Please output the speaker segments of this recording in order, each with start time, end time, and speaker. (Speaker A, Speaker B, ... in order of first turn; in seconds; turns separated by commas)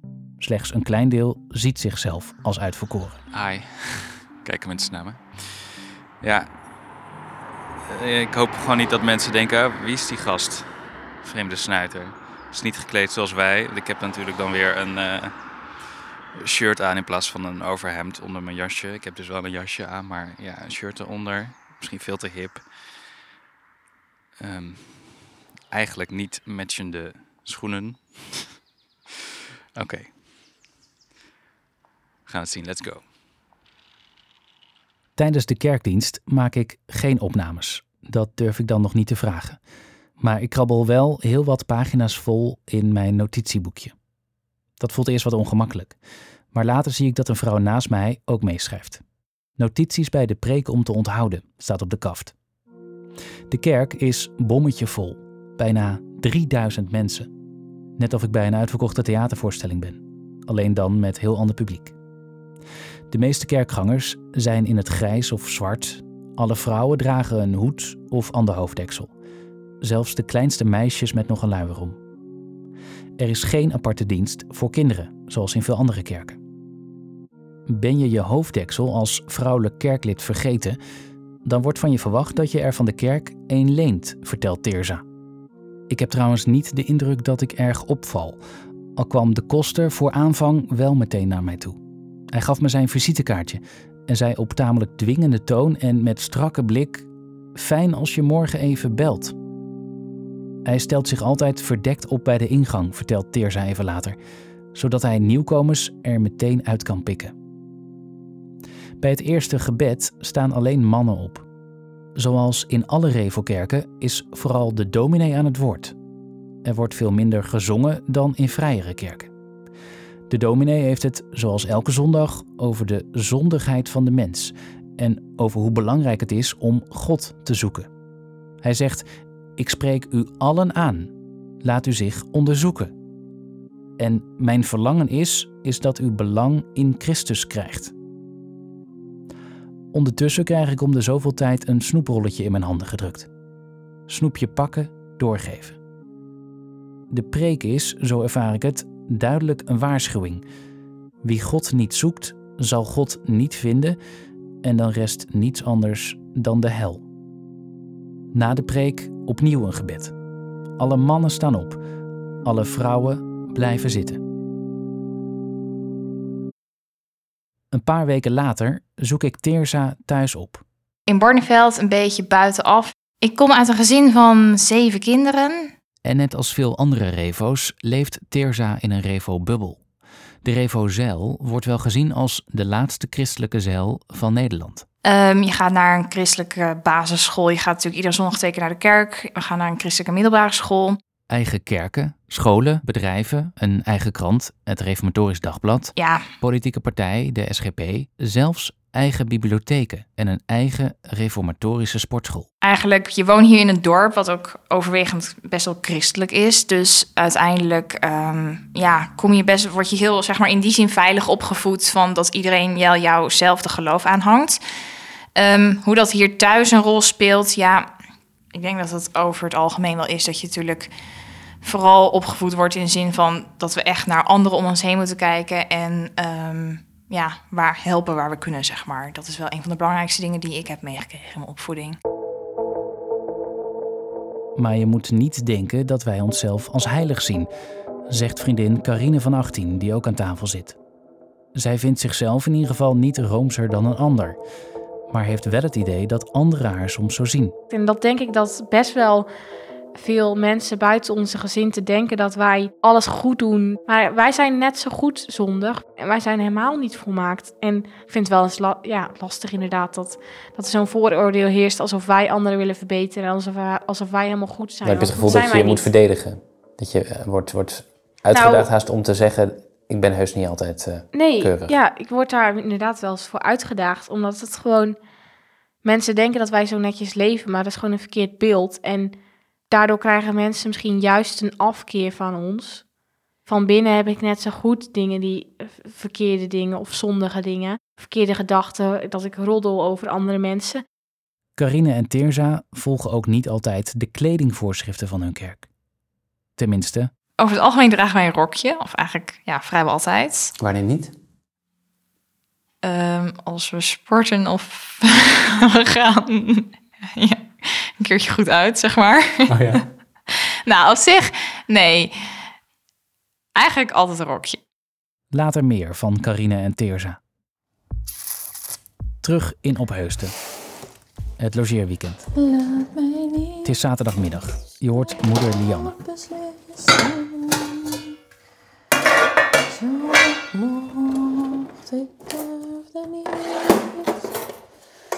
Speaker A: 0.4-3.2, Speaker B: 3.3-6.5, Speaker B: 7.9-10.7, Speaker B: 11.2-15.3, Speaker B: 16.3-22.6, Speaker B: 24.4-28.5, Speaker B: 29.8-30.1, Speaker B: 32.3-33.0, Speaker A: 35.1-39.6, Speaker A: 40.2-43.9, Speaker A: 44.8-46.0, Speaker A: 46.5-49.0, Speaker A: 49.6-52.3, Speaker A: 53.5-57.3, Speaker A: 58.0-61.9, Speaker A: 63.1-69.1, Speaker A: 69.8-72.0, Speaker A: 73.2-76.4, Speaker A: 77.7-80.8, Speaker A: 81.4-85.0, Speaker A: 85.9-88.4, Speaker A: 89.0-91.8, Speaker A: 92.3-99.3, Speaker A: 100.6-104.2, Speaker A: 104.7-107.3, Speaker A: 109.0-111.4, Speaker A: 112.2-115.9, Speaker A: 116.6-119.3, Speaker A: 120.3-127.9, Speaker A: 128.6-129.1, Speaker A: 129.6-131.1, Speaker A: 131.6-132.9, Speaker A: 134.0-137.9, Speaker A: 139.9-143.3, Speaker A: 144.1-145.8, Speaker A: 147.1-150.4, Speaker A: 151.2-154.0, Speaker A: 154.6-157.0, Speaker A: 158.3-160.1, Speaker A: 160.8-161.8, Speaker A: 162.4-164.2, Speaker A: 167.7-170.6, Speaker C: 171.1-175.7, Speaker A: 176.0-179.8, Speaker A: 180.4-184.8, Speaker C: 185.0-191.0, Speaker A: 191.3-202.5, Speaker C: 196.0-196.2, Speaker C: 202.6-214.6, Speaker C: 215.3-217.9, Speaker C: 218.5-220.9, Speaker C: 221.6-232.0, Speaker A: 234.6-237.5, Speaker A: 238.1-240.8, Speaker A: 241.5-244.4, Speaker A: 245.1-247.5, Speaker D: 247.7-249.3, Speaker D: 249.9-265.9, Speaker B: 264.8-271.7, Speaker E: 268.3-268.7, Speaker D: 271.1-275.0, Speaker D: 275.8-279.1, Speaker D: 279.7-282.8, Speaker D: 283.4-290.8, Speaker A: 291.6-295.7, Speaker A: 296.6-297.1, Speaker C: 297.4-300.5, Speaker B: 300.6-301.1, Speaker C: 302.8-312.5, Speaker B: 309.5-309.8, Speaker C: 313.5-314.6, Speaker A: 315.3-317.2, Speaker A: 319.2-320.4, Speaker A: 321.4-322.2, Speaker E: 322.3-323.7, Speaker A: 323.6-325.9, Speaker E: 325.6-328.1, Speaker E: 329.7-334.1